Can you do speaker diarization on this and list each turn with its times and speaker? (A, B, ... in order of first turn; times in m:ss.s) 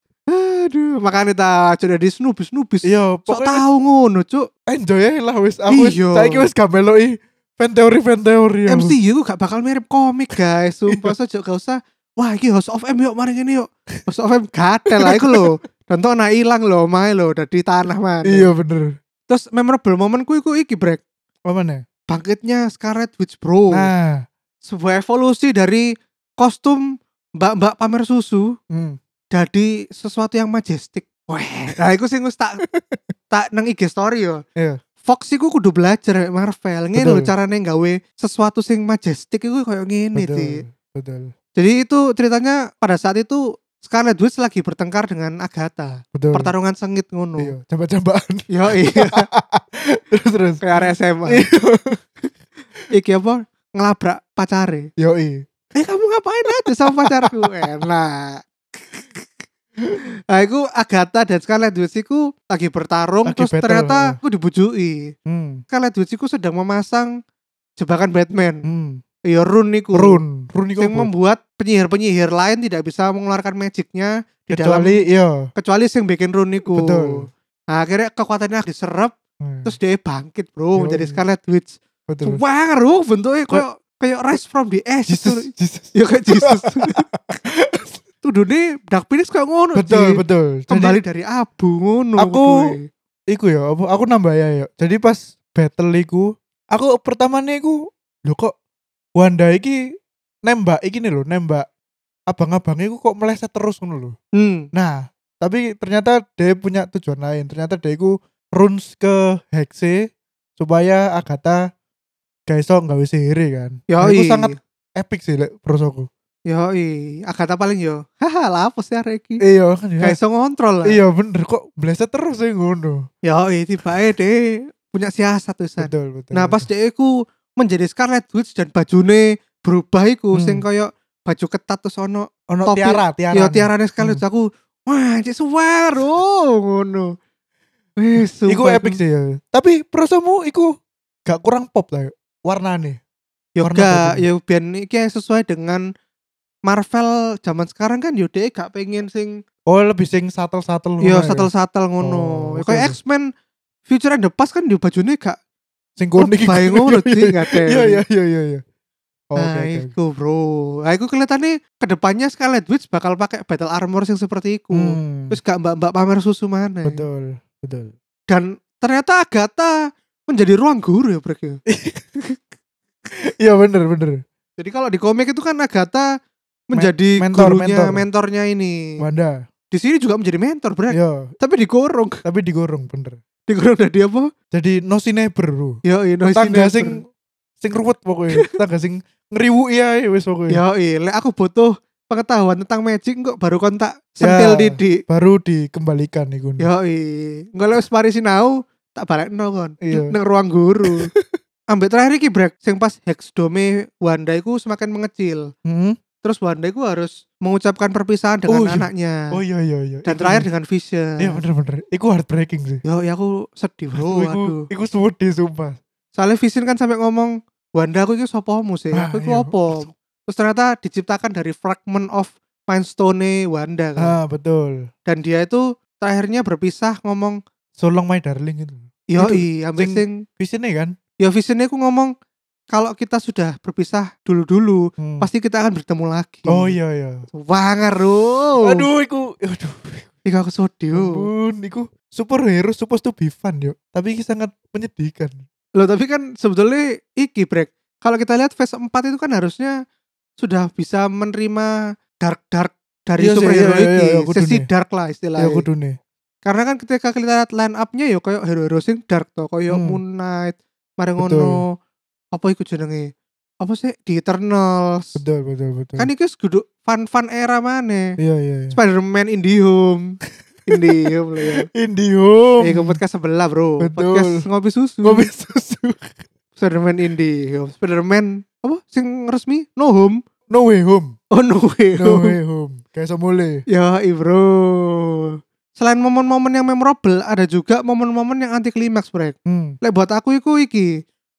0:00.3-0:04.5 A
0:02.8-0:03.6 B
0:04.7-0:08.9 B
0:05.7-0:06.5 A
0:08.7-0:18.5 A
0:15.0-0:15.5 B
0:18.2-0:19.0 B
0:19.3-0:21.0 A
0:21.5-0:21.8 B
0:22.1-0:23.9 A
0:23.7-0:24.2 B
0:24.6-0:26.8 A
0:27.4-0:28.5 A
0:28.7-0:29.0 B
0:29.3-0:32.6 A
0:32.6-0:33.1 B
0:33.3-0:34.4 A
0:35.0-0:40.6 A
0:37.0-0:37.3 B
0:40.1-0:41.3 B
0:41.6-0:47.5 A
0:46.1-0:46.5 B
0:47.4-0:50.6 B
0:48.5-0:49.3 A
0:50.6-0:51.4 A
0:51.3-0:52.0 B
0:52.9-0:54.9 A
0:55.0-0:55.5 B
0:55.7-0:59.2 A
0:56.6-0:57.6 B
1:00.3-1:05.1 A
1:03.2-1:04.2 B
1:05.3-1:05.6 B
1:05.7-1:07.1 A
1:07.8-1:08.6 A
1:08.6-1:09.0 B
1:09.3-1:10.2 A
1:09.9-1:11.1 B
1:10.8-1:15.0 A
1:14.5-1:15.5 B
1:15.6-1:27.0 A
1:16.7-1:17.3 B
1:19.4-1:19.7 B
1:20.8-1:21.2 B
1:22.1-1:22.4 B
1:25.1-1:28.0 B
1:28.2-1:32.8 A
1:29.8-1:31.0 B
1:32.2-1:32.7 B
1:33.3-1:38.5 B
1:39.2-1:39.8 B
1:40.4-1:41.6 B
1:42.3-1:44.1 B
1:44.4-1:44.7 A
1:44.7-1:51.7 B
1:52.5-1:56.1 B
1:53.9-1:54.5 A
1:56.5-1:59.4 A
1:59.4-2:00.2 B
2:00.0-2:01.0 A
2:00.8-2:03.1 B
2:03.2-2:17.1 A
2:05.8-2:06.6 B
2:10.3-2:10.6 B
2:12.5-2:14.2 B
2:18.0-2:19.0 A
2:18.4-2:20.7 B
2:21.2-2:23.0 B
2:23.6-2:25.8 A
2:23.6-2:24.2 B
2:26.6-2:29.4 A
2:29.7-2:31.5 B
2:31.0-2:33.3 A
2:32.0-2:33.0 B
2:33.9-2:35.4 A
2:36.0-2:38.6 B
2:36.2-2:38.0 A
2:39.3-2:39.9 B
2:39.4-2:47.0 A
2:44.7-2:45.4 B
2:46.8-2:47.9 B
2:48.3-2:49.7 A
2:50.3-2:51.6 A
2:51.7-2:52.2 B
2:53.4-2:54.2 B
2:54.6-2:56.1 A
2:56.7-2:58.8 A
2:56.7-2:58.0 B
2:59.0-2:59.4 B
2:59.7-3:02.2 A
3:00.9-3:01.3 B
3:02.2-3:03.2 B
3:03.5-3:04.3 A
3:04.5-3:05.8 B
3:05.8-3:07.0 A
3:06.3-3:07.0 B
3:07.6-3:10.6 B
3:10.5-3:15.0 A
3:14.2-3:16.7 B
3:16.6-3:21.1 A
3:19.8-3:20.1 B
3:20.9-3:21.4 B
3:21.7-3:25.5 A
3:25.6-3:26.0 B
3:26.2-3:29.3 A
3:28.5-3:30.5 B
3:30.0-3:31.4 A
3:31.2-3:32.8 B
3:32.8-3:34.6 A
3:34.0-3:35.8 B
3:36.1-3:44.1 A
3:38.9-3:39.9 B
3:44.0-3:44.8 B
3:45.1-3:47.4 A
3:47.8-3:50.9 B
3:49.1-3:50.2 A
3:51.2-3:52.1 A
3:52.7-3:56.7 A
3:55.0-3:55.3 B
3:56.5-3:57.3 B
3:57.4-3:58.9 A
3:58.6-4:00.1 B
4:00.2-4:01.3 A
4:00.9-4:05.4 B
4:05.8-4:09.7 A
4:10.4-4:15.6 A
4:13.2-4:14.7 B
4:15.4-4:16.0 B
4:16.4-4:21.7 A
4:19.7-4:20.0 B
4:21.2-4:21.6 B
4:22.3-4:23.1 A
4:23.6-4:25.2 A
4:25.2-4:26.1 B
4:26.0-4:28.1 A
4:28.2-4:28.8 B
4:28.7-4:30.2 A
4:30.7-4:31.7 A
4:31.4-4:33.0 B
4:32.6-4:35.3 A
4:33.8-4:34.4 B
4:35.0-4:36.1 B
4:36.6-4:40.2 A
4:40.5-4:41.1 B
4:41.3-4:42.3 A
4:42.0-4:43.6 B
4:43.7-4:50.9 A
4:49.4-4:49.8 B